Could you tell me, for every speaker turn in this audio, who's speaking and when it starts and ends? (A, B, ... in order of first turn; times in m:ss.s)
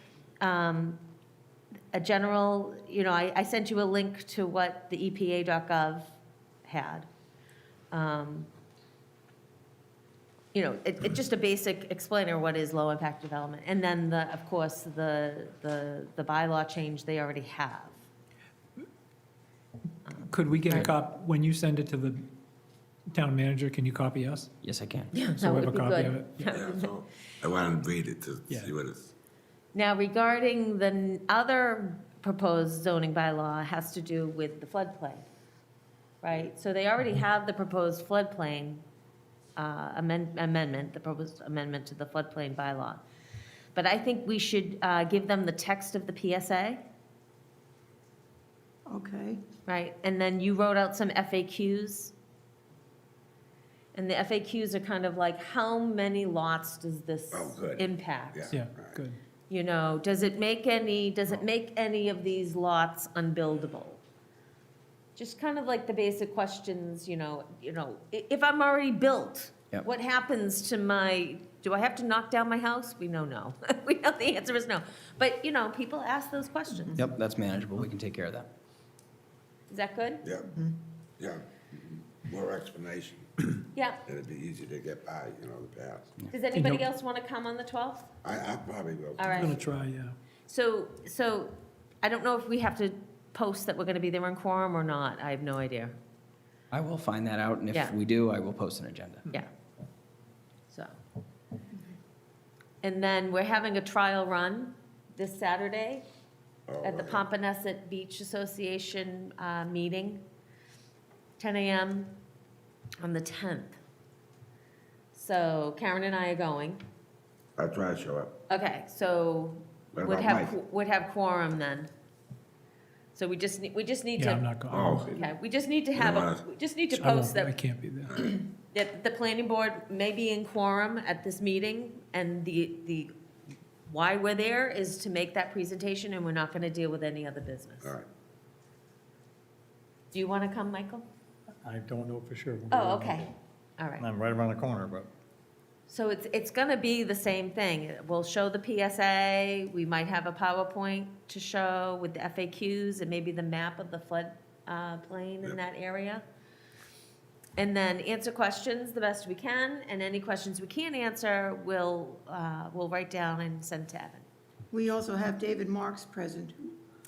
0:00.4-0:01.0 A
0:01.9-0:06.1 A
0:06.6-0:07.1 A
0:07.9-0:08.5 A
0:10.5-0:18.0 A
0:20.1-0:20.9 A
0:20.1-0:22.2 B
0:23.1-0:24.5 B
0:24.6-0:25.1 C
0:25.1-0:26.9 A
0:25.2-0:26.5 B
0:26.5-0:29.1 D
0:29.7-0:35.2 A
0:36.2-0:38.8 A
0:39.6-0:43.0 A
0:43.7-0:46.8 A
0:48.9-0:49.4 E
0:49.6-0:52.1 A
0:53.9-0:58.5 A
0:57.3-0:59.0 D
0:58.5-0:59.2 B
0:59.5-1:04.0 A
1:05.2-1:17.0 A
1:16.7-1:17.0 E
1:16.9-1:18.5 C
1:19.7-1:20.2 A
1:20.5-1:20.8 E
1:21.2-1:26.1 D
1:23.7-1:24.0 A
1:26.3-1:28.1 A
1:26.5-1:26.8 B
1:28.2-1:29.4 D
1:29.2-1:29.6 A
1:29.3-1:30.2 B
1:30.5-1:36.0 A
1:36.7-1:39.3 C
1:37.7-1:38.0 A
1:40.7-1:41.0 A
1:42.8-1:46.0 A
1:46.7-1:47.2 D
1:46.8-1:50.2 A
1:51.4-1:52.1 A
1:53.0-1:53.8 A
1:55.1-1:56.8 A
1:57.6-1:58.3 D
1:58.5-2:01.9 A
1:59.9-2:00.5 D
2:03.1-2:04.4 A
2:04.2-2:05.0 B
2:04.7-2:05.3 D
2:05.1-2:07.5 A
2:05.9-2:06.4 D
2:06.9-2:08.1 B
2:08.3-2:13.1 A
2:13.8-2:17.9 A
2:20.1-2:21.0 A
2:21.6-2:23.3 F
2:22.7-2:24.0 A
2:24.0-2:25.1 F
2:25.9-2:36.2 A
2:37.6-2:44.2 A
2:44.7-2:46.6 E